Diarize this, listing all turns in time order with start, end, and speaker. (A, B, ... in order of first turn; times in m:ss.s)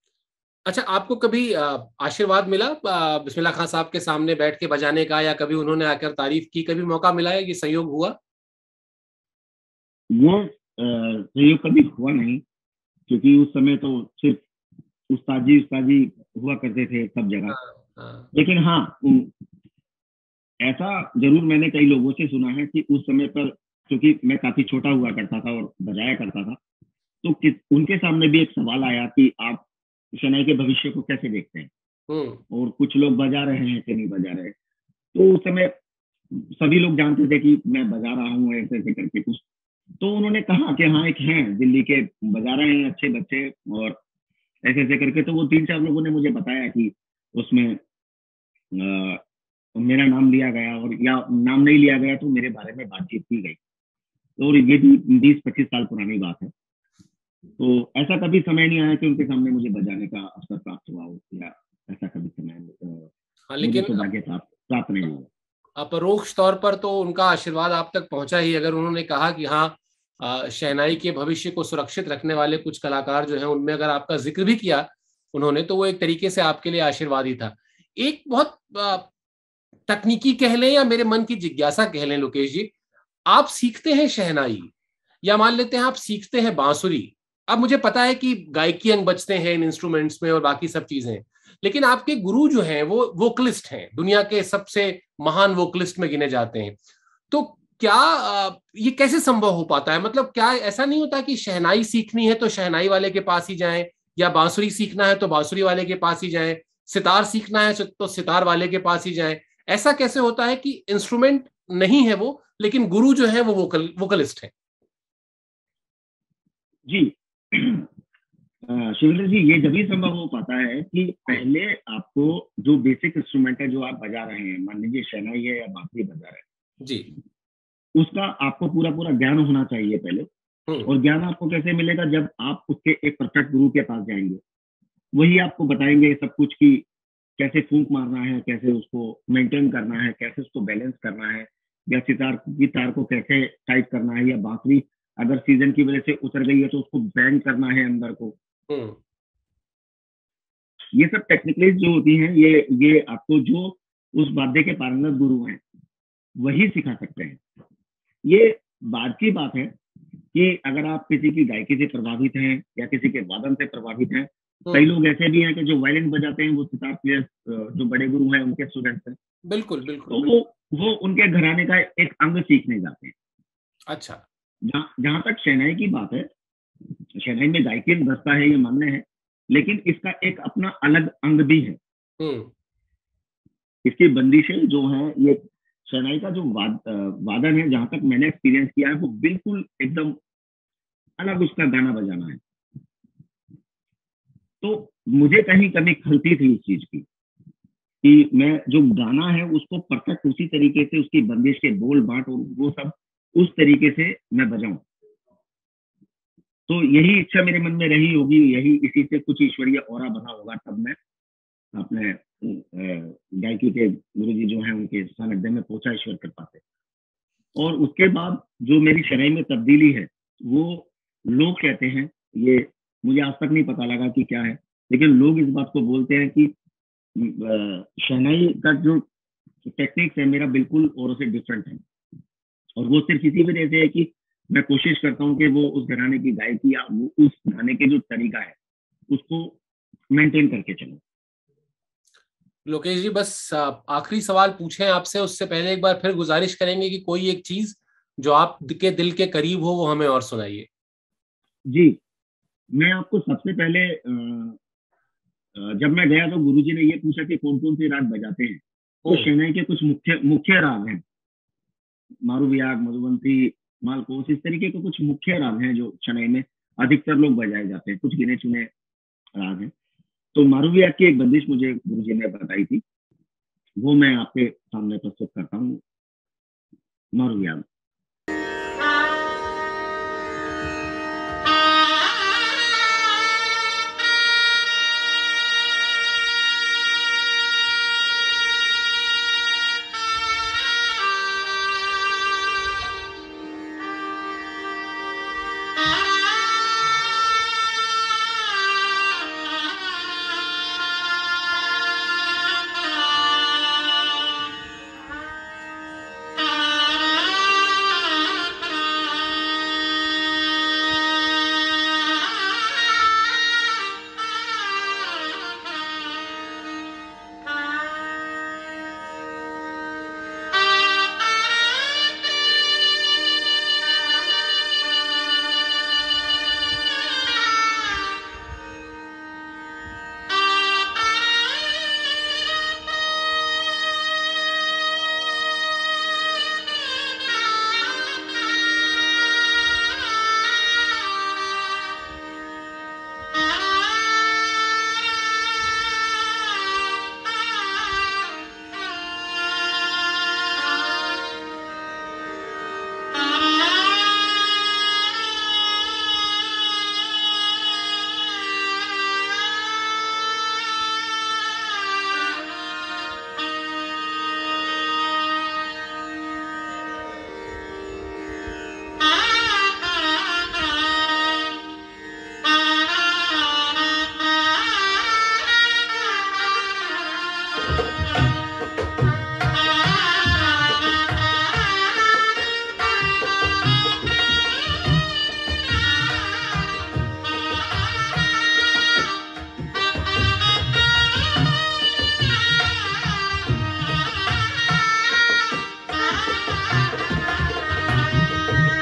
0:00.7-0:08.2 A
0:10.1-0:12.4 B
0:13.1-0:14.4 B
0:15.1-0:17.6 B
0:17.5-0:18.3 A
0:18.3-0:19.3 B
0:20.6-0:26.6 B
0:27.2-0:31.7 B
0:32.1-0:32.4 A
0:32.5-0:34.6 B
0:35.1-0:35.7 B
0:36.3-0:39.4 B
0:40.0-0:44.0 B
0:44.6-0:47.8 B
0:48.7-0:49.2 B
0:49.8-0:53.6 B
0:54.4-0:56.5 B
0:57.6-1:05.3 B
1:03.5-1:04.1 A
1:05.8-1:19.1 A
1:19.9-1:22.7 A
1:23.3-1:24.7 A
1:25.2-1:36.8 A
1:37.3-1:54.5 A
1:56.9-1:57.9 B
1:58.6-2:06.4 B
2:06.8-2:07.1 A
2:08.0-2:10.3 B
2:10.8-2:14.4 B
2:15.2-2:16.8 B
2:17.4-2:28.4 B
2:28.7-2:29.0 A
2:30.9-2:35.6 B
2:36.4-2:37.4 B
2:38.3-2:39.7 B
2:40.3-2:49.2 B
2:44.7-2:44.9 A
2:49.5-2:50.3 A
2:50.1-2:53.1 B
2:53.9-2:54.2 A
2:54.7-2:56.3 B
2:57.2-3:01.8 B
3:02.2-3:02.5 A
3:03.8-3:10.2 B
3:11.2-3:12.4 B
3:14.6-3:17.1 B
3:18.0-3:24.8 B
3:26.7-3:31.0 B
3:31.8-3:36.6 B
3:37.6-3:46.5 B
3:47.2-3:49.1 B
3:49.6-3:51.8 B
3:52.8-3:58.6 B
3:59.1-3:59.6 B
4:00.1-4:01.0 B
4:02.7-4:10.7 A
4:11.7-4:12.0 B
4:12.8-4:14.6 B
4:15.6-4:21.0 B
4:22.2-4:28.7 B
4:29.4-4:29.7 B
4:30.4-4:32.8 B
4:33.8-4:35.8 B
4:37.2-4:37.6 B